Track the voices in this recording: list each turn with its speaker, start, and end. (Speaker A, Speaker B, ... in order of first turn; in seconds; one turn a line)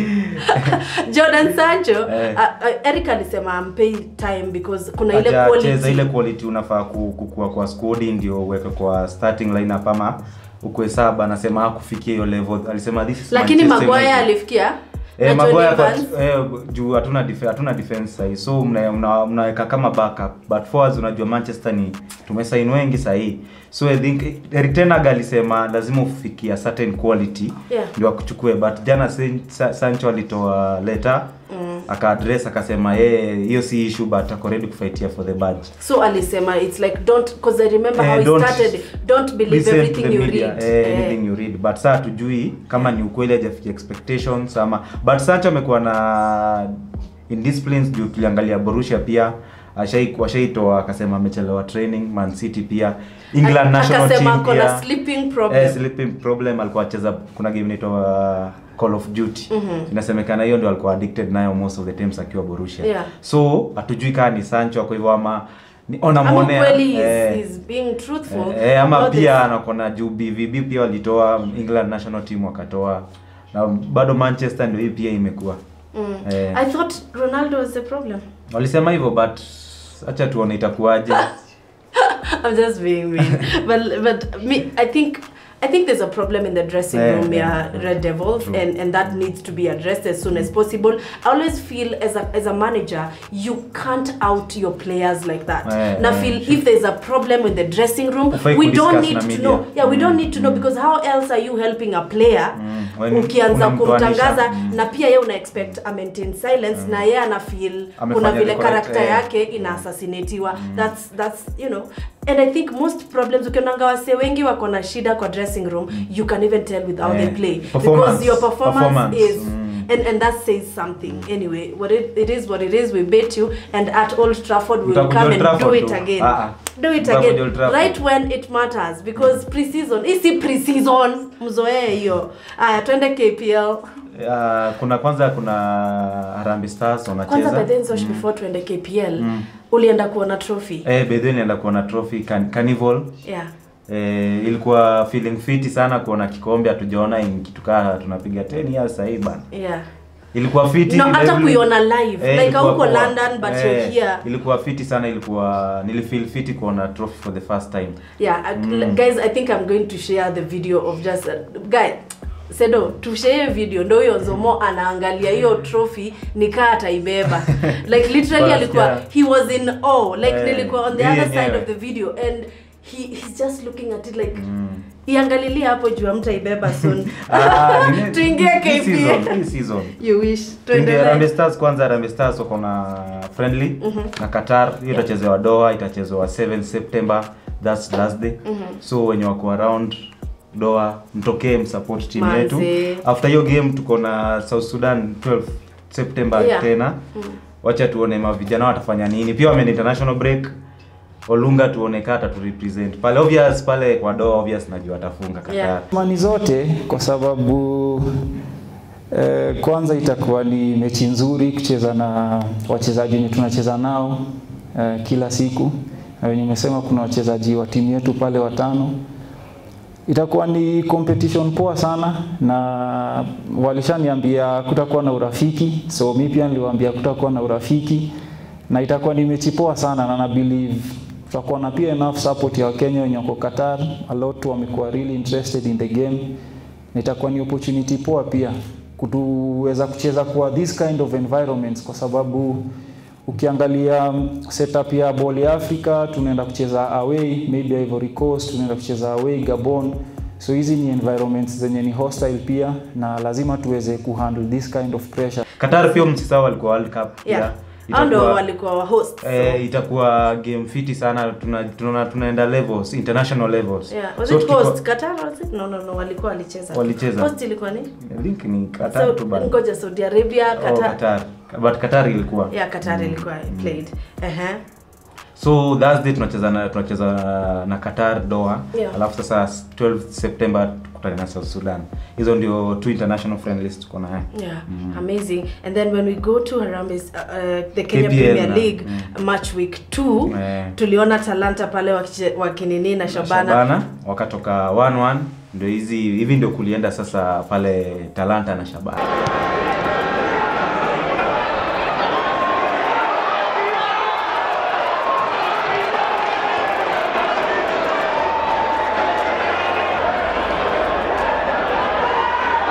Speaker A: 0.3-6.1
Speaker B: 2.0-2.4
Speaker B: 5.1-14.3
Speaker A: 13.3-16.1
Speaker B: 15.2-31.3
Speaker A: 31.5-31.9
Speaker B: 31.9-35.7
Speaker A: 35.8-41.2
Speaker B: 38.0-38.7
Speaker B: 39.5-54.8
Speaker A: 53.4-55.8
Speaker B: 55.5-67.4
Speaker A: 59.5-59.9
Speaker A: 62.8-63.1
Speaker A: 66.2-69.3
Speaker B: 68.3-75.6
Speaker A: 75.9-78.2
Speaker B: 76.2-76.6
Speaker B: 78.5-81.3
Speaker A: 82.0-102.5
Speaker B: 86.9-88.6
Speaker B: 95.6-96.6
Speaker B: 98.3-100.7
Speaker B: 102.5-104.8
Speaker A: 103.1-133.8
Speaker B: 106.7-107.0
Speaker B: 108.0-109.8
Speaker B: 110.5-110.9
Speaker B: 117.0-119.9
Speaker B: 124.8-128.0
Speaker B: 134.1-138.2
Speaker A: 137.2-140.9
Speaker B: 139.2-139.4
Speaker B: 140.8-143.1
Speaker A: 143.2-143.5
Speaker B: 143.9-149.4
Speaker A: 149.5-149.9
Speaker B: 150.3-151.7
Speaker A: 150.9-154.2
Speaker B: 152.2-158.0
Speaker A: 158.2-174.4
Speaker B: 158.5-159.0
Speaker B: 167.4-167.7
Speaker B: 168.2-169.0
Speaker B: 170.2-171.7
Speaker B: 174.3-174.8
Speaker A: 175.0-179.4
Speaker B: 176.7-179.9
Speaker A: 180.0-181.3
Speaker B: 180.7-189.9
Speaker A: 183.8-184.1
Speaker A: 188.4-188.8
Speaker B: 190.5-197.0
Speaker A: 192.2-193.0
Speaker A: 196.3-197.4
Speaker B: 197.6-200.5
Speaker B: 201.3-205.8
Speaker A: 205.5-205.7
Speaker C: 205.9-208.1
Speaker C: 209.1-219.0
Speaker C: 220.1-228.1
Speaker C: 228.7-236.3
Speaker C: 236.9-242.7
Speaker C: 243.2-255.4
Speaker B: 255.6-258.4
Speaker A: 257.2-259.6
Speaker B: 259.2-264.8
Speaker A: 263.9-267.9
Speaker B: 266.7-267.3
Speaker B: 268.0-269.5
Speaker A: 268.8-271.0
Speaker B: 270.6-273.8
Speaker A: 272.5-274.6
Speaker B: 275.4-285.0
Speaker A: 278.7-279.0
Speaker A: 284.3-293.6
Speaker B: 287.9-289.1
Speaker B: 290.3-290.8
Speaker B: 293.1-299.1